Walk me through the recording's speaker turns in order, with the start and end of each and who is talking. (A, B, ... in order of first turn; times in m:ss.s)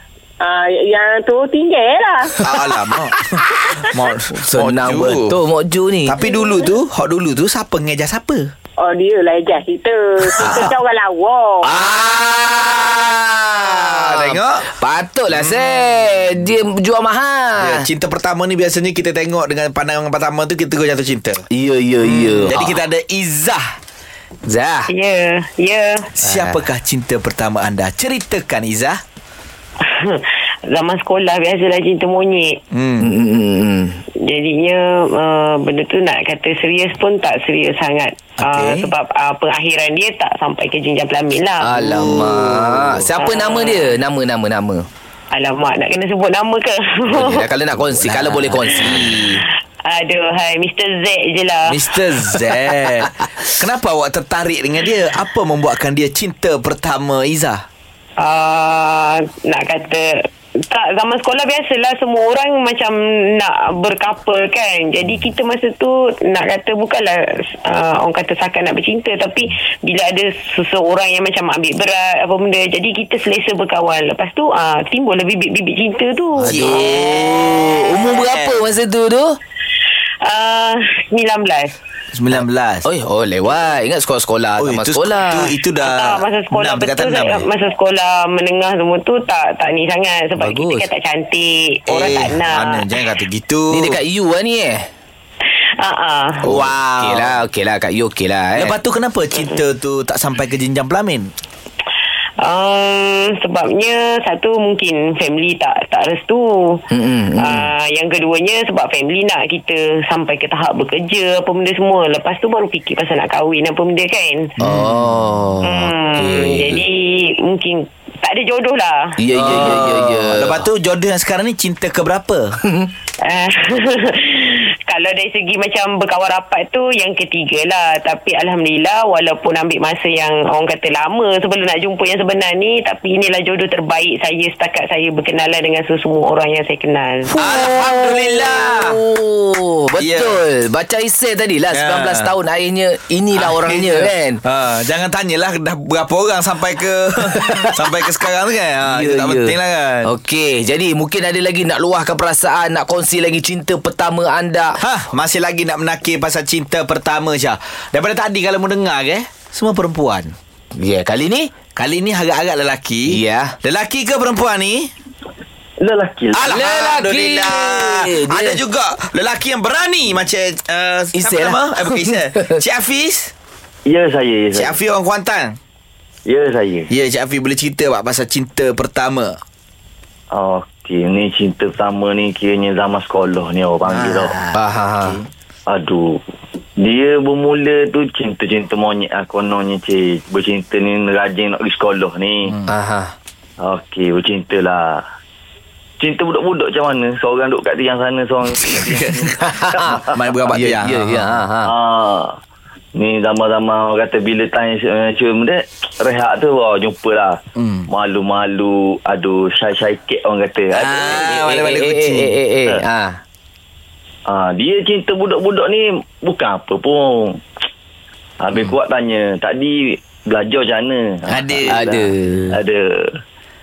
0:00.4-0:02.3 A
0:02.4-0:05.4 B
0:04.4-0:06.2 C
0:06.0-0:08.4 B
0:08.8-0:11.6 A
0:10.4-0:10.7 C
0:10.4-0:10.7 B
0:11.6-0:13.0 B
0:11.7-0:17.8 C
0:13.6-0:14.7 B
0:15.3-0:16.3 B
0:17.6-0:21.4 B
0:21.5-0:22.8 C
0:22.0-0:23.6 B
0:24.5-0:24.9 C
0:24.9-0:26.1 D
0:26.2-0:29.0 B
0:26.2-0:26.6 C
0:29.8-0:32.6 D
0:32.7-0:33.1 B
0:33.0-0:34.0 C
0:34.2-0:42.4 D
0:38.4-0:38.9 B
0:41.6-0:44.8 C
0:41.8-0:43.0 B
0:43.1-0:44.0 D
0:45.3-0:47.5 D
0:47.1-0:49.1 C
0:47.8-0:49.4 B
0:49.4-0:51.8 D
0:51.6-0:57.6 B
0:58.2-1:00.1 D
1:00.7-1:17.0 D
1:16.4-1:19.4 C
1:16.4-1:18.6 B
1:20.2-1:21.7 D
1:22.1-1:22.8 B
1:22.3-1:25.5 C
1:24.6-1:27.5 B
1:25.8-1:32.9 D
1:30.4-1:30.9 C
1:31.9-1:34.0 B
1:33.7-1:34.9 C
1:35.8-1:36.4 D
1:36.4-1:37.4 B
1:36.5-1:38.8 C
1:38.5-1:41.3 B
1:42.4-1:46.8 D
1:46.9-1:47.7 C
1:47.3-1:54.5 D
1:54.6-1:56.8 C
1:54.6-1:55.0 B
1:55.6-1:59.7 D
1:59.2-2:00.6 C
1:59.3-2:02.6 B
2:03.2-2:17.3 D
2:17.3-2:19.0 B
2:17.4-2:24.4 C
2:19.9-2:20.4 B
2:21.7-2:22.3 B
2:23.3-2:30.1 B
2:28.9-2:29.5 C
2:30.0-2:34.8 C
2:34.8-2:40.3 B
2:40.8-2:41.5 C
2:41.7-2:44.9 B
2:43.1-2:43.5 C
2:45.8-2:46.5 E
2:46.3-2:53.3 B
2:46.5-2:48.6 C
2:51.2-2:52.5 C
2:53.9-2:54.8 E
2:54.5-2:55.6 B
2:56.2-2:56.9 E
2:56.9-2:59.4 B
3:00.3-3:04.4 E
3:03.8-3:04.5 B
3:04.5-3:05.2 C
3:05.0-3:06.2 E
3:06.8-3:12.6 E
3:12.7-3:13.1 C
3:13.6-3:15.0 E
3:16.0-3:20.1 E
3:18.5-3:19.3 B
3:19.4-3:20.0 C
3:20.1-3:21.4 B
3:20.5-3:21.7 C
3:21.6-3:22.4 E
3:23.0-3:31.3 E
3:27.6-3:27.9 B
3:30.8-3:32.4 B
3:31.0-3:33.2 C
3:34.3-3:37.4 E
3:38.4-3:43.1 E
3:41.3-3:41.8 B
3:41.7-3:42.6 C